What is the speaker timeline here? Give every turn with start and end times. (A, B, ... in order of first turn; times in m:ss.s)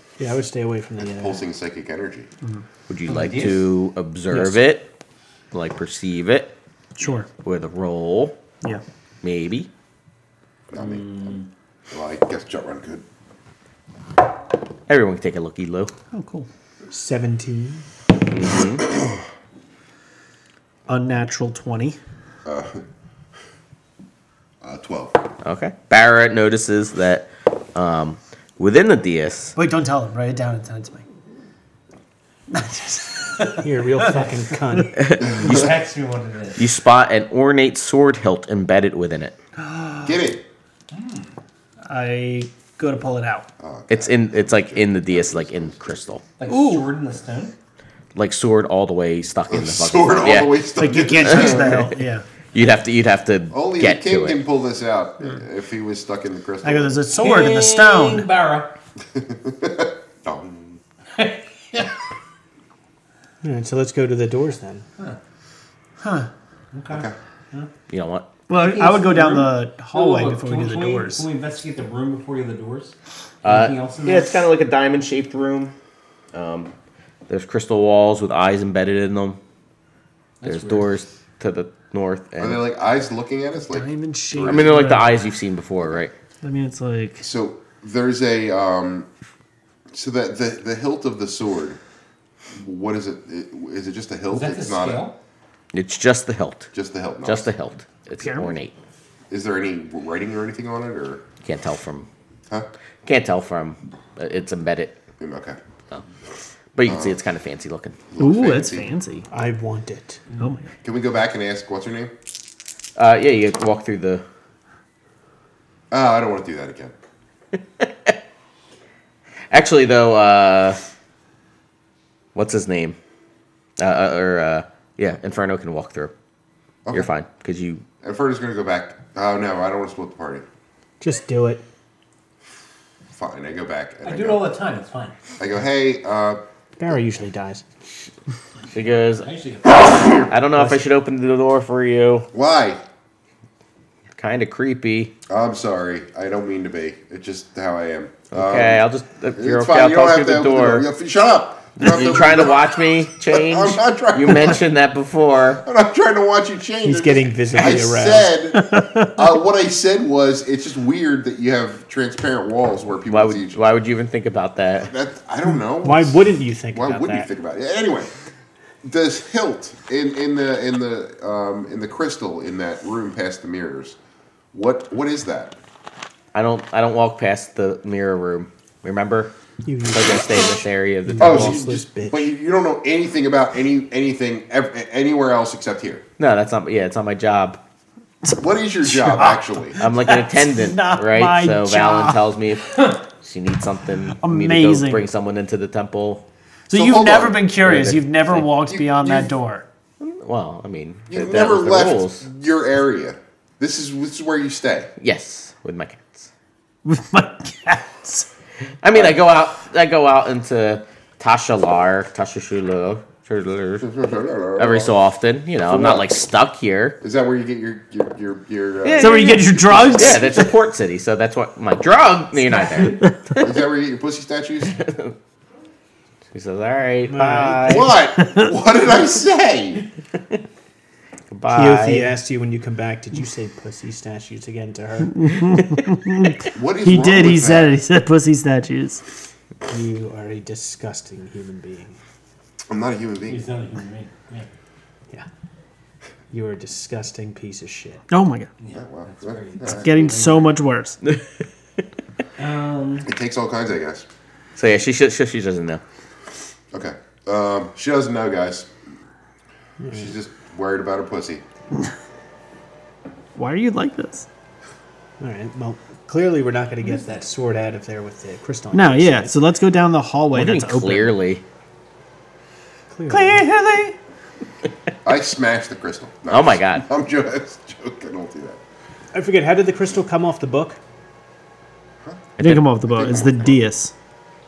0:00.2-0:01.4 A
0:01.0-0:02.3 B
0:02.9-0:04.9 C
0:03.1-0:03.7 D
0:05.5-0:06.5 C
0:07.0-0:07.3 E
0:07.4-0:08.4 C
0:09.2-0:09.7 C
0:10.7-0:13.0 B
0:10.8-0:11.5 D
0:14.9-0:15.9 C
0:16.1-0:16.5 E
0:16.9-0:17.8 A
0:18.3-0:18.9 C
0:20.9-0:22.0 E
0:22.4-0:22.8 B
0:24.6-0:25.2 B
0:25.4-0:29.6 C
0:29.6-0:31.0 E
0:32.5-0:34.2 E
0:33.5-0:35.0 A
0:34.9-0:35.7 C
0:35.3-0:36.7 D
0:36.6-0:39.4 C
0:39.7-0:40.1 E
0:40.0-0:40.4 B
0:40.9-0:41.3 D
0:41.9-0:43.5 E
0:43.6-0:46.2 B
0:43.9-0:46.2 C
0:46.4-0:47.5 D
0:46.5-0:46.9 E
0:48.2-0:50.6 C
0:49.5-0:51.9 B
0:50.8-0:52.2 E
0:51.2-0:51.9 C
0:52.5-0:54.4 C
0:53.5-0:57.0 B
0:56.6-0:58.3 E
0:57.2-0:58.7 D
0:59.1-1:00.8 B
1:01.1-1:01.9 D
1:03.4-1:04.8 A
1:06.0-1:06.3 E
1:06.7-1:07.7 D
1:06.9-1:07.2 B
1:07.9-1:08.3 C
1:08.5-1:11.3 E
1:08.5-1:14.4 D
1:13.4-1:15.8 C
1:16.3-1:16.7 C
1:17.3-1:19.4 C
1:20.4-1:21.0 D
1:20.4-1:22.6 C
1:22.4-1:25.0 B
1:23.7-1:25.2 E
1:24.4-1:26.1 C
1:26.4-1:27.2 E
1:27.2-1:29.1 B
1:29.9-1:31.8 B
1:32.5-1:35.1 B
1:34.3-1:35.2 D
1:35.7-1:36.7 C
1:36.7-1:37.5 B
1:37.2-1:38.7 C
1:38.2-1:38.6 E
1:39.3-1:41.2 B
1:41.4-1:42.1 C
1:43.0-1:45.0 C
1:45.2-1:45.6 B
1:46.8-1:48.0 C
1:46.9-1:47.2 B
1:48.1-1:48.9 B
1:48.2-1:49.3 E
1:49.3-1:50.2 A
1:50.3-1:50.7 E
1:50.8-1:52.1 B
1:53.0-1:54.2 C
1:55.9-1:56.9 B
1:57.8-1:58.1 C
1:59.5-2:00.8 C
2:02.4-2:03.0 C
2:03.8-2:06.1 C
2:06.9-2:07.8 C
2:08.0-2:10.4 B
2:11.0-2:11.6 A
2:13.1-2:14.4 B
2:14.0-2:15.2 D
2:15.4-2:16.4 B
2:16.8-2:17.6 A
2:18.7-2:19.3 C
2:18.8-2:20.3 D
2:20.2-2:22.3 C
2:22.3-2:22.8 B
2:24.2-2:25.1 C
2:25.3-2:28.8 B
2:28.3-2:30.9 C
2:29.4-2:34.6 B
2:31.8-2:35.6 C
2:35.6-2:43.6 B
2:36.8-2:38.3 A
2:38.6-2:39.1 E
2:43.1-2:44.9 C
2:44.8-2:48.1 B
2:45.8-2:47.3 A
2:48.8-2:54.0 B
2:54.5-2:55.6 B
2:56.3-2:59.3 C
2:59.6-3:02.3 A
2:59.9-3:01.6 C
3:01.2-3:06.0 B
3:06.2-3:07.6 C
3:08.3-3:12.2 E
3:08.4-3:09.8 B
3:09.8-3:16.2 C
3:12.7-3:13.0 D
3:14.2-3:15.1 E
3:16.7-3:19.6 E
3:16.7-3:17.4 B
3:17.6-3:18.5 C
3:18.6-3:19.3 B
3:20.0-3:22.2 C
3:21.1-3:24.9 B
3:25.0-3:26.3 C
3:26.8-3:28.3 E
3:28.8-3:33.9 C
3:28.9-3:29.2 B
3:33.8-3:35.0 B
3:34.6-3:37.0 C
3:35.7-3:36.1 B
3:37.0-3:40.4 B
3:38.8-3:43.5 C
3:39.0-3:40.5 E
3:42.6-3:43.3 E
3:43.4-3:44.8 B
3:44.7-3:45.2 C
3:46.3-3:47.9 C
3:47.1-3:47.9 A
3:47.6-3:49.9 B
3:48.2-3:48.5 E
3:51.3-3:52.1 C
3:51.5-3:55.3 A
3:55.1-3:59.0 E
3:56.6-3:57.8 B
3:59.6-4:02.0 A
4:02.7-4:03.5 B
4:03.3-4:04.5 D
4:06.3-4:08.0 A
4:08.1-4:08.5 E
4:08.6-4:10.5 D
4:08.7-4:10.1 B
4:09.6-4:11.0 E
4:12.4-4:13.1 D
4:13.0-4:14.1 B
4:14.6-4:15.8 C
4:16.7-4:18.7 B
4:19.8-4:20.1 A
4:19.9-4:21.4 B
4:23.4-4:24.3 E
4:25.2-4:29.4 A
4:26.8-4:27.2 D
4:28.7-4:31.2 E
4:30.3-4:31.4 C
4:32.9-4:33.4 A
4:33.1-4:34.0 E
4:35.0-4:38.6 B
4:36.3-4:36.8 C
4:39.1-4:40.8 A
4:42.0-4:42.3 B
4:42.4-4:42.7 C
4:42.4-4:43.9 E
4:42.9-4:43.6 B